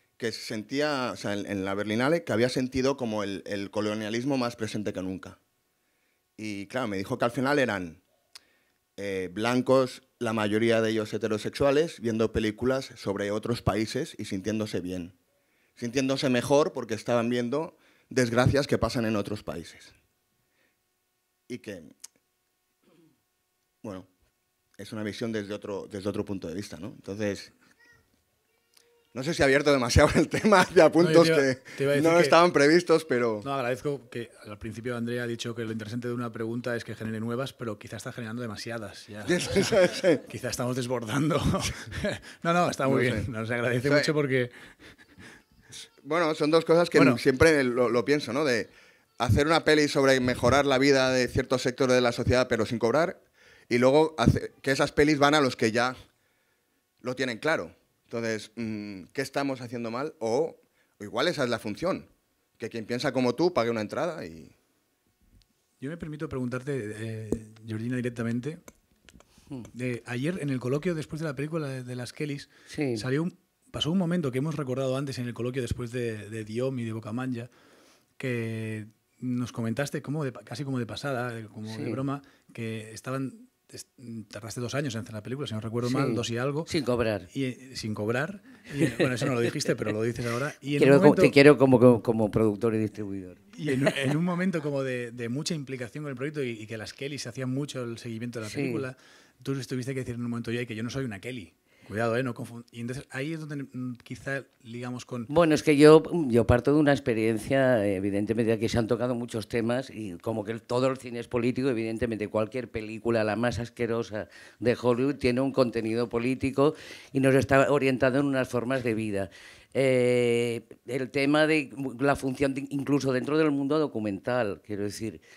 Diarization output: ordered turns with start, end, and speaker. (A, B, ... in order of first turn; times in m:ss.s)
0:00.2-0:05.4 A
0:06.4-0:08.0 A
0:09.0-0:15.1 A
0:15.8-0:19.9 A
0:21.5-0:21.9 A
0:23.8-0:24.1 A
0:24.8-0:27.5 A
0:29.1-0:33.4 A
0:31.0-0:32.4 B
0:33.4-0:44.5 B
0:39.3-0:40.2 A
0:42.9-0:43.2 A
0:43.8-0:44.1 A
0:46.0-0:55.9 A
0:57.0-1:04.5 A
1:05.8-1:08.6 B
1:09.7-1:17.5 B
1:12.7-1:13.0 C
1:18.2-1:26.7 B
1:21.7-1:22.0 C
1:25.8-1:27.3 C
1:27.3-1:31.3 B
1:30.8-1:33.9 C
1:33.5-1:45.3 B
1:38.4-1:38.9 C
1:45.3-2:05.2 C